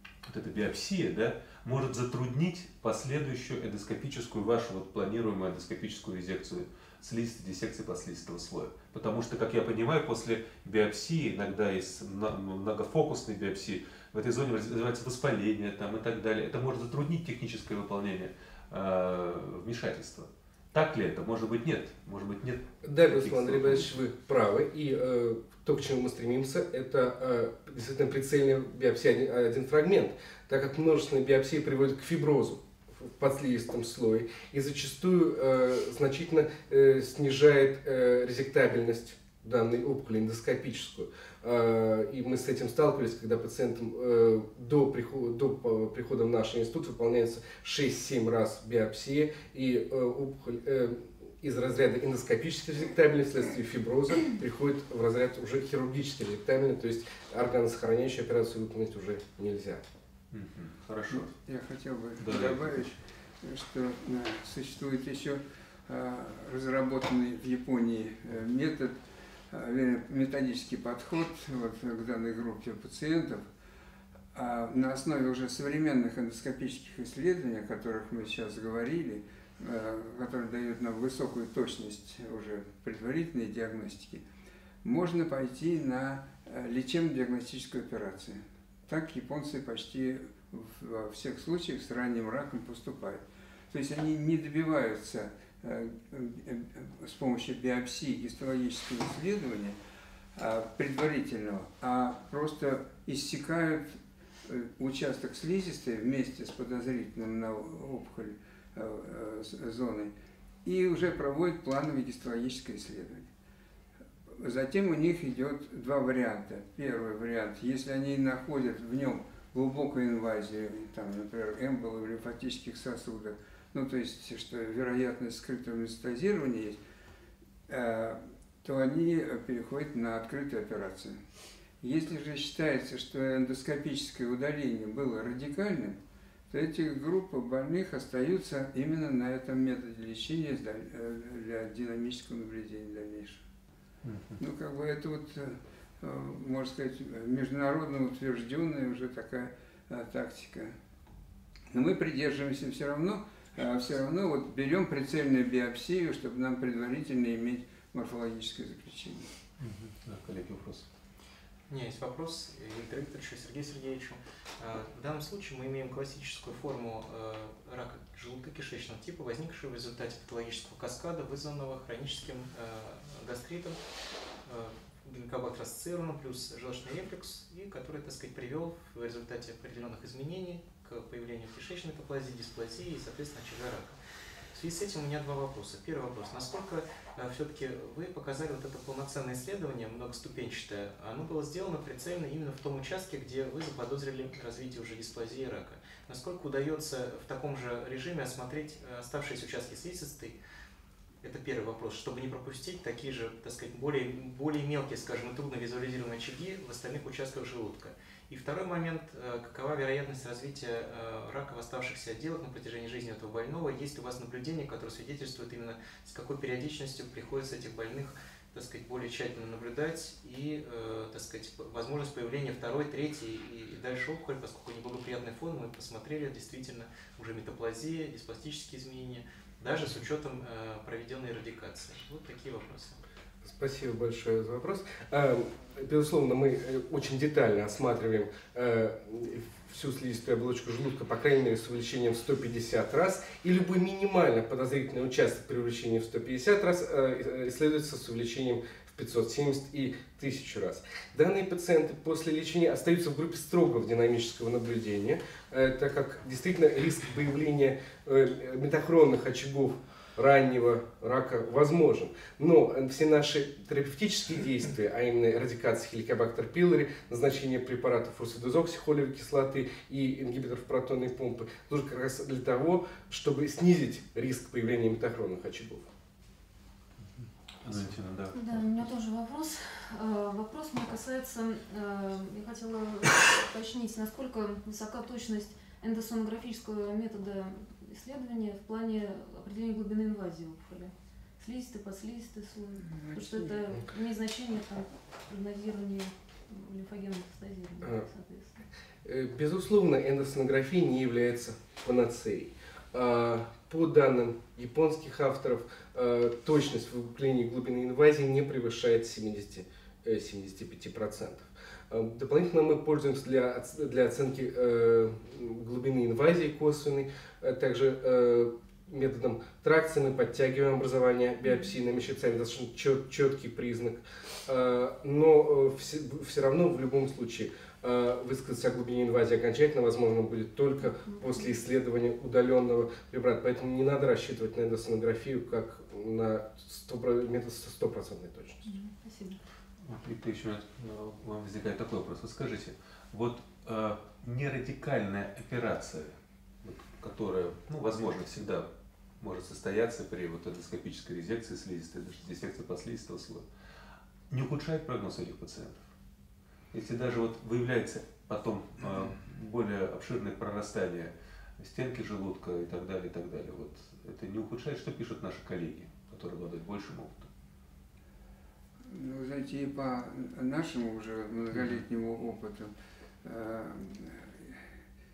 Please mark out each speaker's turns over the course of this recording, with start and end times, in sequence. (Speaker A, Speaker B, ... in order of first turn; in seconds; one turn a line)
Speaker A: 0.2-23.9
Speaker B: 22.8-59.8
Speaker A: 60.3-61.3
Speaker C: 61.1-68.9
Speaker A: 62.2-63.0
Speaker C: 69.5-73.5
Speaker C: 74.3-84.2
Speaker C: 84.8-99.8
Speaker C: 100.3-110.1
Speaker C: 110.6-113.3
Speaker C: 114.3-126.8
Speaker C: 127.7-131.2
Speaker C: 131.8-136.0
Speaker C: 136.5-143.4
Speaker A: 144.0-144.4
Speaker C: 144.4-150.7
Speaker C: 151.7-159.3
Speaker A: 159.6-160.9
Speaker D: 161.7-173.8
Speaker D: 174.4-184.0
Speaker D: 184.5-200.4
Speaker D: 201.2-233.0
Speaker B: 233.4-275.9
Speaker A: 277.2-278.6
Speaker E: 278.3-298.6
Speaker B: 299.0-338.6
Speaker E: 330.8-331.5
Speaker E: 338.6-339.4
Speaker A: 339.8-348.7
Speaker A: 349.2-353.4
Speaker A: 354.3-355.9
Speaker A: 356.7-367.3
Speaker C: 368.9-372.7
Speaker A: 371.5-371.8
Speaker C: 373.2-374.6